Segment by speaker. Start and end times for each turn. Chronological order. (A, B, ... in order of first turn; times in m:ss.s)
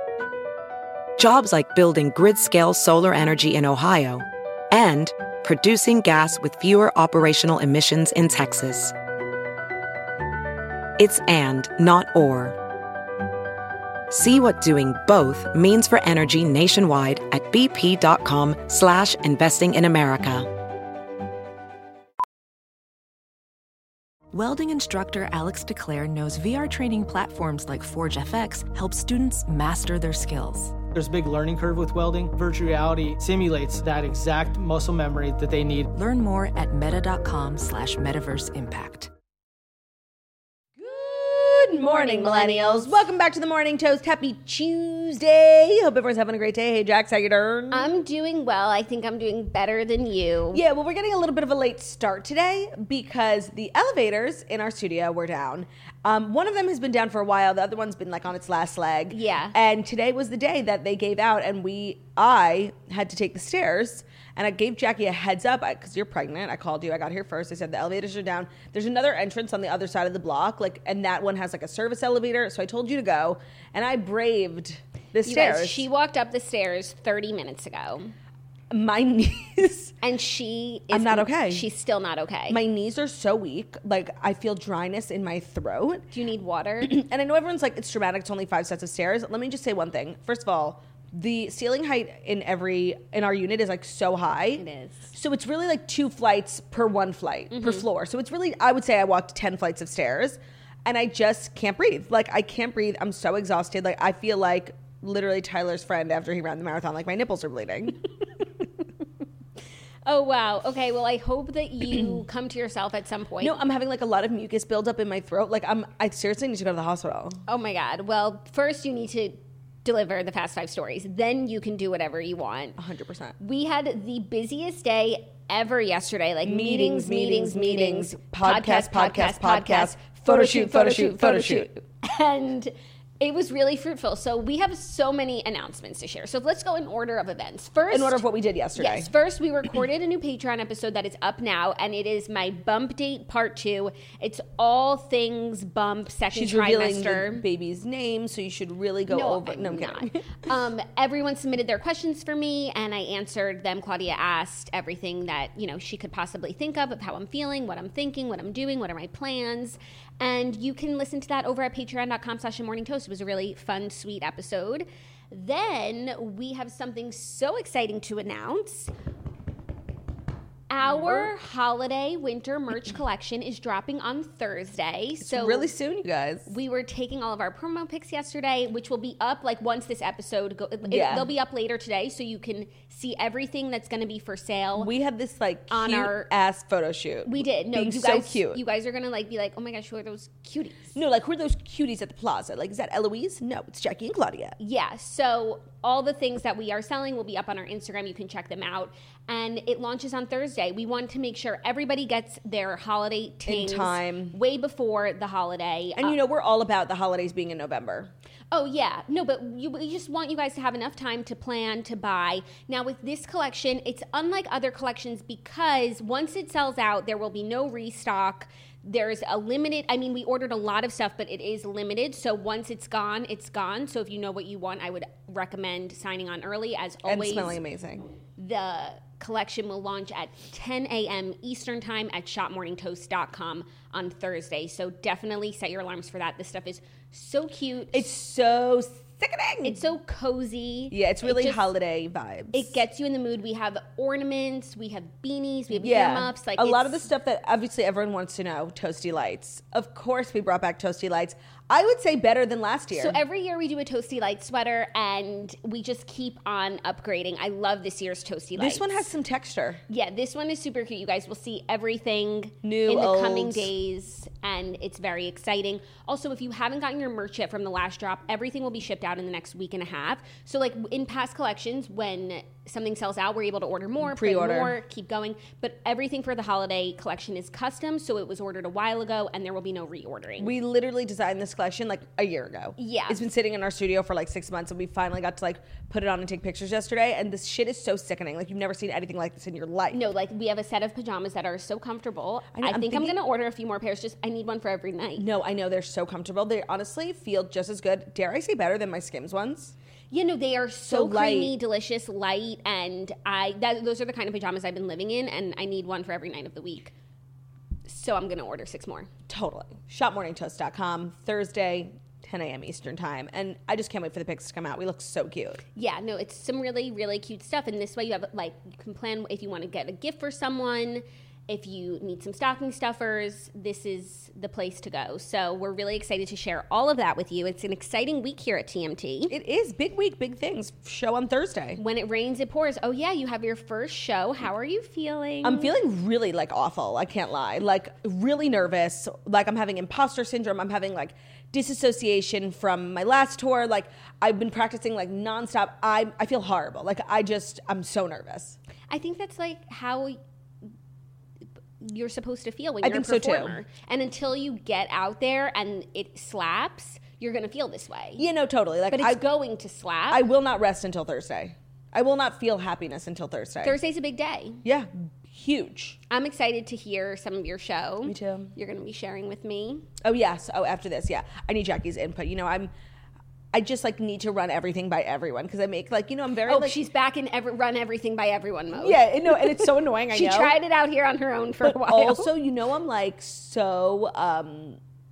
0:01.2-0:08.9 A
0:11.0-0:12.6 A
0:14.1-0:20.5 A
0:24.3-0:30.8 B
0:30.9-0:35.9 C
0:35.9-0:39.1 B
0:40.8-0:47.9 D
0:41.8-0:43.0 E
0:47.7-0:50.6 E
0:50.5-1:15.9 D
0:59.1-0:59.6 E
1:15.2-1:18.1 E
1:18.7-1:19.9 D
1:20.0-1:22.6 E
1:20.9-1:21.7 D
1:22.5-1:26.1 D
1:26.1-1:27.0 E
1:26.8-1:48.0 D
1:34.6-1:35.1 E
1:37.5-1:37.8 E
1:50.0-1:53.6 E
1:53.4-1:57.4 D
1:57.5-2:02.8 E
2:02.8-2:03.3 D
2:03.4-2:18.2 E
2:06.4-2:11.7 D
2:17.9-2:19.1 D
2:18.8-2:27.4 E
2:26.3-2:30.3 D
2:29.1-2:48.9 E
2:50.7-2:55.7 E
2:50.8-2:51.3 D
2:55.2-2:56.5 D
2:56.5-3:04.9 E
3:00.9-3:01.3 D
3:04.8-3:08.6 D
3:05.7-3:06.3 E
3:07.2-3:10.9 E
3:10.9-3:14.6 D
3:14.6-3:26.2 E
3:23.4-3:24.4 D
3:26.0-3:28.1 D
3:28.5-3:47.6 E
3:47.0-3:48.0 D
3:48.4-3:58.1 E
3:57.9-3:59.8 D
3:59.6-4:01.7 E
4:00.9-4:02.7 D
4:02.5-4:07.1 E
4:05.7-4:13.2 D
4:12.9-4:19.0 E
4:18.6-4:19.8 D
4:19.9-4:40.5 E
4:22.6-4:23.7 D
4:34.0-4:34.8 D
4:40.4-4:50.0 D
4:42.8-4:43.3 E
4:49.9-4:55.3 E
4:52.5-4:53.2 D
4:55.2-4:59.7 D
5:00.1-5:06.9 E
5:00.9-5:01.5 D
5:07.8-5:09.1 E
5:09.3-5:15.6 D
5:15.7-5:29.3 E
5:29.3-5:31.8 D
5:31.8-5:35.7 E
5:35.4-5:48.6 D
5:48.9-5:50.2 E
5:51.8-5:58.2 E
5:52.8-5:53.6 D
5:58.2-5:59.2 D
5:58.9-6:00.2 E
6:00.1-6:03.8 D
6:03.6-6:04.6 E
6:04.6-6:06.0 D
6:06.1-6:09.9 E
6:08.0-6:08.5 D
6:10.0-6:12.7 D
6:13.5-6:16.8 D
6:16.5-6:22.3 E
6:18.7-6:20.5 D
6:21.6-6:24.8 D